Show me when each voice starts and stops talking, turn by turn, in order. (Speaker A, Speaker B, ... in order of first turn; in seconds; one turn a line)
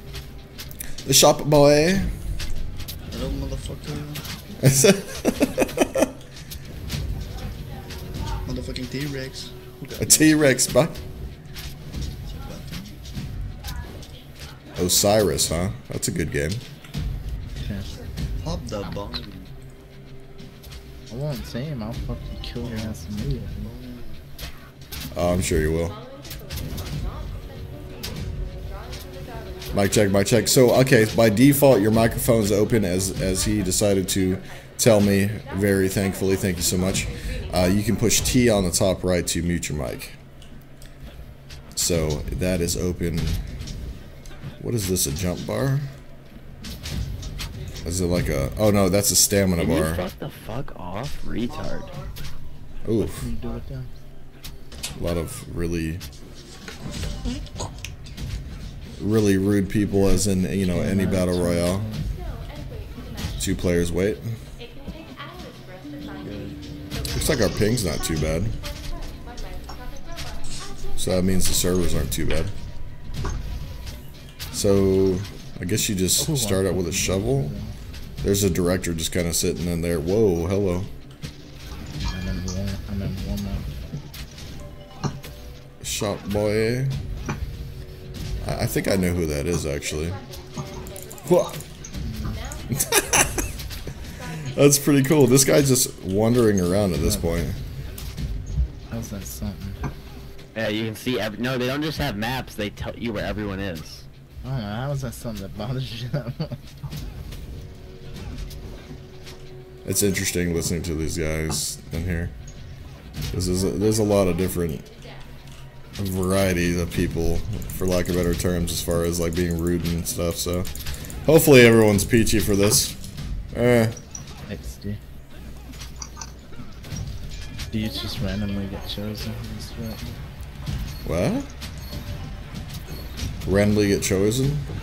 Speaker A: 1.1-2.1
Speaker B: 3.1-4.2
Speaker A: 4.6-6.1
Speaker B: 8.5-10.4
Speaker A: 10.0-11.0
Speaker B: 12.2-12.9
Speaker A: 14.8-16.6
Speaker C: 17.6-18.0
Speaker B: 18.4-19.5
Speaker C: 21.1-23.8
Speaker B: 22.6-23.0
Speaker B: 23.6-24.2
Speaker A: 25.1-26.0
Speaker D: 25.7-31.6
Speaker A: 29.7-40.2
Speaker D: 32.3-38.3
Speaker A: 41.8-43.4
Speaker A: 44.6-45.9
Speaker A: 47.8-50.0
Speaker E: 49.6-52.0
Speaker A: 52.9-53.3
Speaker C: 53.0-53.9
Speaker A: 55.0-56.0
Speaker A: 59.0-61.9
Speaker C: 59.8-62.1
Speaker D: 62.1-63.5
Speaker A: 63.4-64.2
Speaker D: 64.6-72.1
Speaker B: 66.1-66.6
Speaker A: 67.1-68.5
Speaker A: 71.0-72.5
Speaker A: 74.5-77.5
Speaker C: 76.2-77.7
Speaker A: 78.2-80.9
Speaker C: 82.0-83.7
Speaker A: 85.8-87.0
Speaker D: 88.4-91.5
Speaker A: 88.4-90.2
Speaker A: 91.2-91.6
Speaker C: 92.0-92.4
Speaker D: 92.2-93.6
Speaker A: 92.9-93.4
Speaker D: 94.1-95.2
Speaker A: 94.5-97.6
Speaker C: 97.0-97.4
Speaker C: 98.9-99.8
Speaker E: 100.5-104.1
Speaker C: 104.4-106.6
Speaker A: 109.8-112.3
Speaker A: 113.3-114.9
Speaker D: 113.6-115.3
Speaker A: 116.0-120.7
Speaker A: 121.3-123.0
Speaker A: 123.5-124.0
Speaker C: 124.5-125.0
Speaker C: 127.7-130.2
Speaker A: 131.0-131.5
Speaker A: 133.4-134.7